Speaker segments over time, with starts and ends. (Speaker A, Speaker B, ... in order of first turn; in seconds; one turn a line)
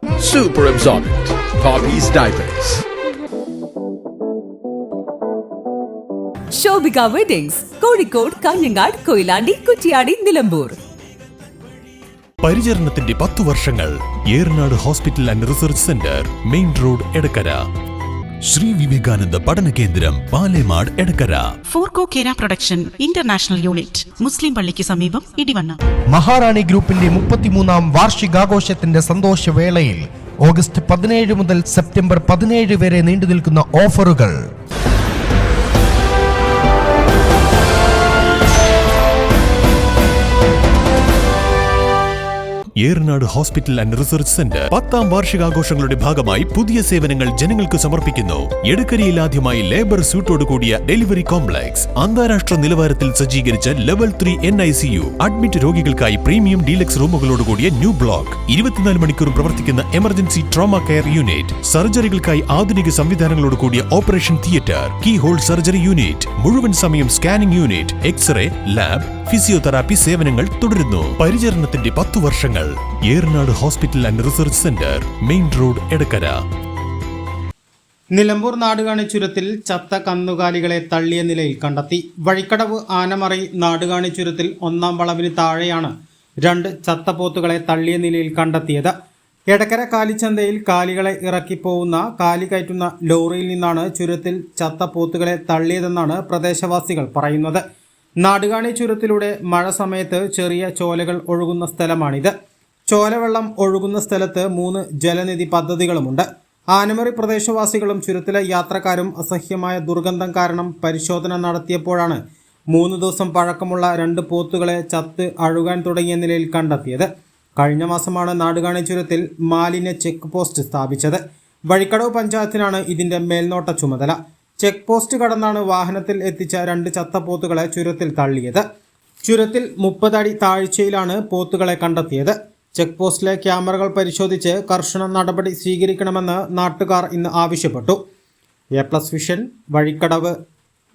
Speaker A: 0.2-2.5
Speaker B: 6.5-10.8
Speaker C: 12.4-17.6
Speaker C: 18.4-21.5
Speaker D: 21.7-25.8
Speaker E: 26.1-34.4
Speaker C: 42.8-76.4
Speaker F: 78.1-85.9
Speaker F: 86.4-88.9
Speaker F: 89.5-97.6
Speaker F: 98.2-102.3
Speaker F: 102.9-112.2
Speaker F: 112.7-128.6
Speaker F: 129.2-138.0
Speaker F: 138.8-140.3